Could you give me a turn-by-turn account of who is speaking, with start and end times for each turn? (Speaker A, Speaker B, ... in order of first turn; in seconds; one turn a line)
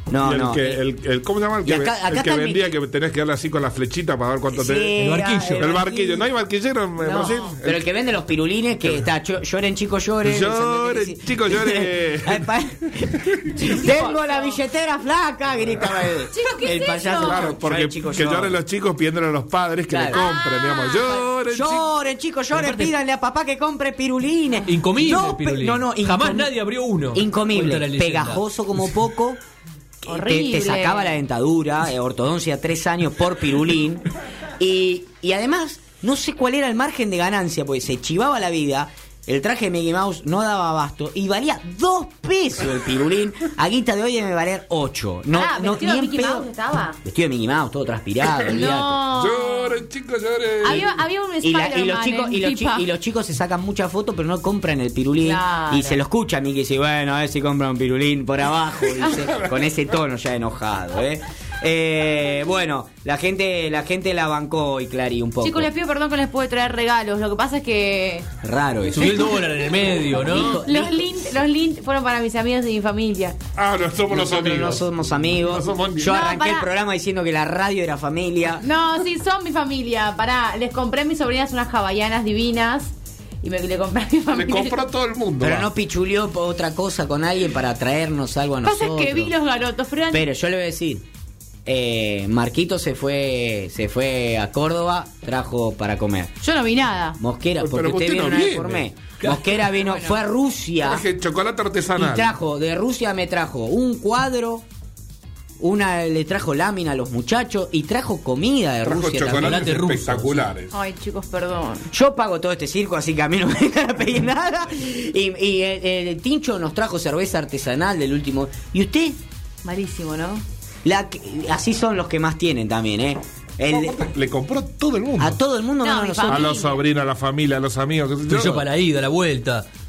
Speaker A: 0.1-0.8
Speaker B: 0.2-5.0
Speaker A: 1.6-2.7
Speaker A: 4.5-6.3
Speaker C: 5.0-5.7
Speaker B: 5.5-7.8
Speaker D: 7.0-7.5
Speaker A: 7.1-18.6
Speaker B: 10.2-12.5
Speaker B: 13.3-13.7
Speaker D: 13.6-14.6
Speaker D: 16.3-17.5
Speaker B: 17.2-21.9
Speaker A: 19.9-20.2
Speaker D: 20.1-21.3
Speaker A: 21.5-26.5
Speaker C: 22.5-22.9
Speaker C: 24.7-28.4
Speaker A: 27.1-29.4
Speaker A: 30.0-34.0
Speaker D: 30.1-31.1
Speaker A: 34.6-46.5
Speaker D: 45.3-47.0
Speaker A: 47.0-49.0
Speaker B: 48.4-50.9
Speaker D: 48.5-49.8
Speaker D: 50.6-52.9
Speaker A: 50.6-50.9
Speaker A: 51.4-65.7
Speaker D: 55.2-56.0
Speaker D: 65.4-68.3
Speaker A: 68.4-69.6
Speaker C: 68.9-70.6
Speaker A: 70.2-71.1
Speaker D: 70.3-73.4
Speaker B: 73.6-74.8
Speaker A: 74.1-78.6
Speaker B: 75.4-76.1
Speaker D: 76.0-76.7
Speaker D: 78.6-84.8
Speaker B: 84.3-85.7
Speaker A: 85.4-89.3
Speaker D: 88.6-90.2
Speaker A: 90.1-91.0
Speaker A: 91.7-96.3
Speaker D: 96.4-97.2
Speaker A: 97.2-101.0
Speaker B: 97.6-98.9
Speaker C: 99.2-99.5
Speaker D: 99.8-100.2
Speaker B: 100.8-102.3
Speaker A: 102.0-104.7
Speaker A: 105.6-109.6
Speaker B: 108.8-110.7
Speaker C: 109.3-110.5
Speaker D: 110.7-111.9
Speaker A: 111.9-119.2
Speaker D: 119.6-120.4
Speaker A: 120.8-124.1
Speaker B: 123.7-125.4
Speaker A: 125.2-126.6
Speaker D: 125.8-126.8
Speaker B: 126.3-128.6
Speaker C: 128.3-129.7